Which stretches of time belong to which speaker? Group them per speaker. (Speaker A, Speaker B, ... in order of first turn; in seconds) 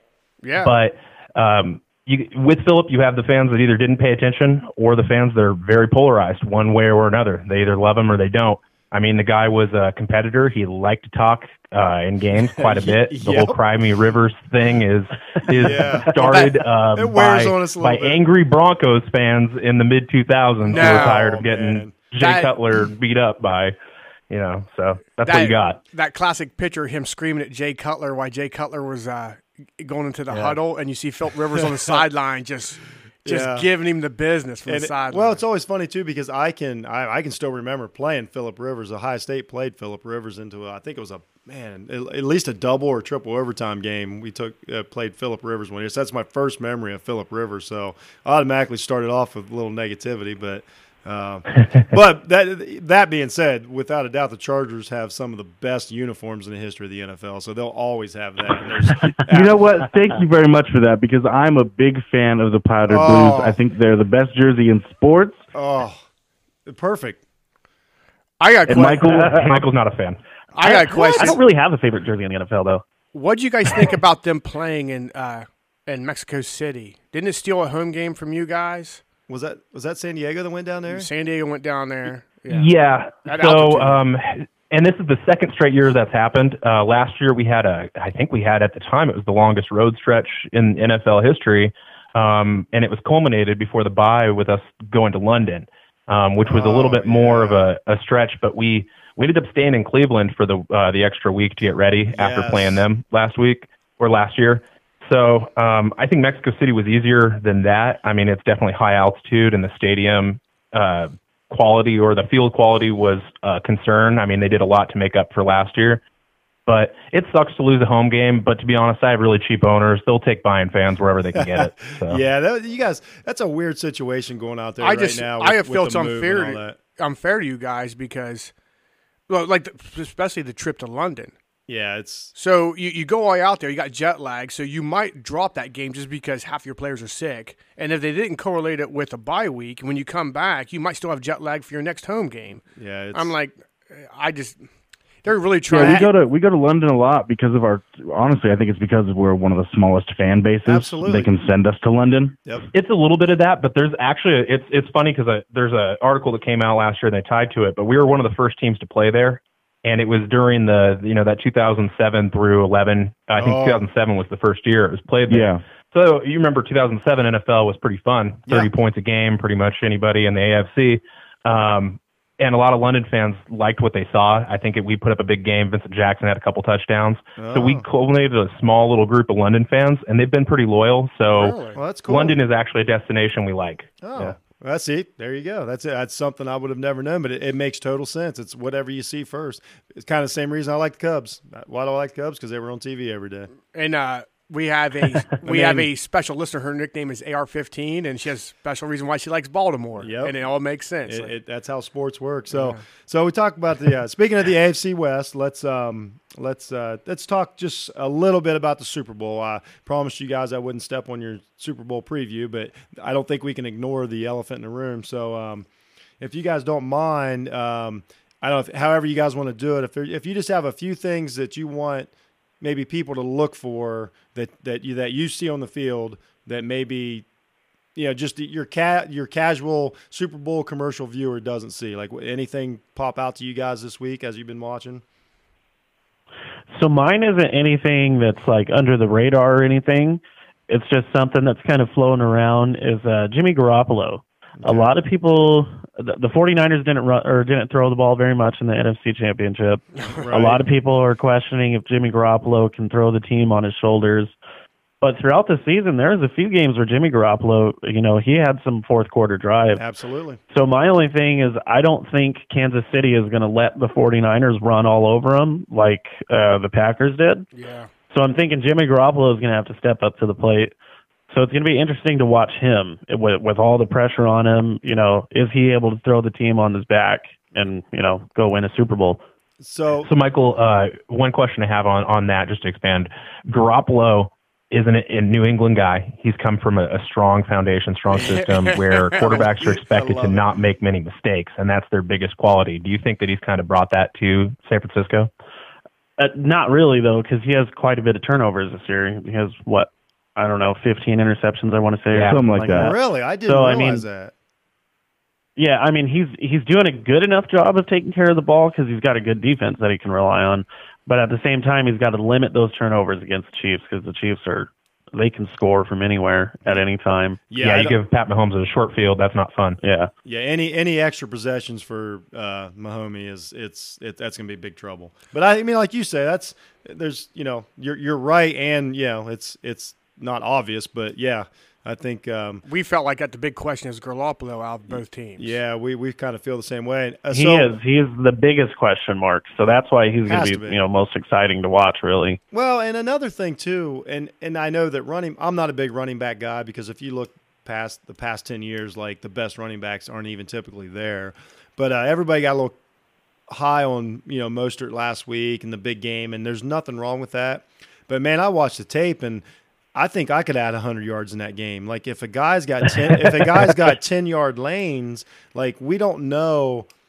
Speaker A: 0.4-0.7, 20.7-21.3, 22.2-22.6, 25.2-35.4, 68.4-69.2, 70.5-71.4, 73.1-79.0, 80.9-82.7, 83.2-84.0, 124.8-128.5, 129.3-131.3, 132.3-142.6, 143.1-144.6, 145.2-146.1, 181.3-181.8, 193.7-201.3, 202.5-202.8, 250.0-250.2, 267.5-267.9, 288.1-289.4, 332.6-335.6
Speaker B: 0.6-23.7, 24.3-25.8, 69.2-70.2, 82.5-116.0, 116.7-122.2, 152.7-184.3, 280.0-295.3, 302.1-302.4, 317.5-319.8
Speaker C: 12.6-13.6, 15.5-18.2, 20.7-21.9, 30.3-30.6, 31.5-32.0, 33.2-33.7, 34.7-59.6, 62.9-63.6, 65.5-66.0, 66.7-67.2, 79.3-81.1, 96.4-97.7, 102.1-102.8, 121.4-126.8, 131.7-132.3, 142.8-143.3, 145.7-146.1, 150.7-151.3, 163.4-163.8, 177.4-177.8, 181.7-182.4, 184.0-193.5, 195.4-195.9, 200.0-200.4, 201.1-215.7, 216.2-222.1, 222.6-227.2, 227.9-235.0, 244.6-244.9, 250.2-250.6, 259.7-260.4, 279.6-280.1, 289.1-290.5, 302.7-304.3, 317.5-317.9, 320.2-332.6, 335.4-337.7, 339.6-340.8, 342.5-352.8, 353.5-366.9
Speaker D: 59.2-65.5, 68.7-69.6, 145.7-152.4, 165.3-165.6, 302.1-302.9
Speaker E: 70.6-72.8, 236.7-254.3, 255.0-259.8, 260.5-267.4, 268.1-270.7, 271.3-279.2, 296.2-302.9, 303.4-304.0, 305.6-317.4, 319.8-320.1, 337.3-342.4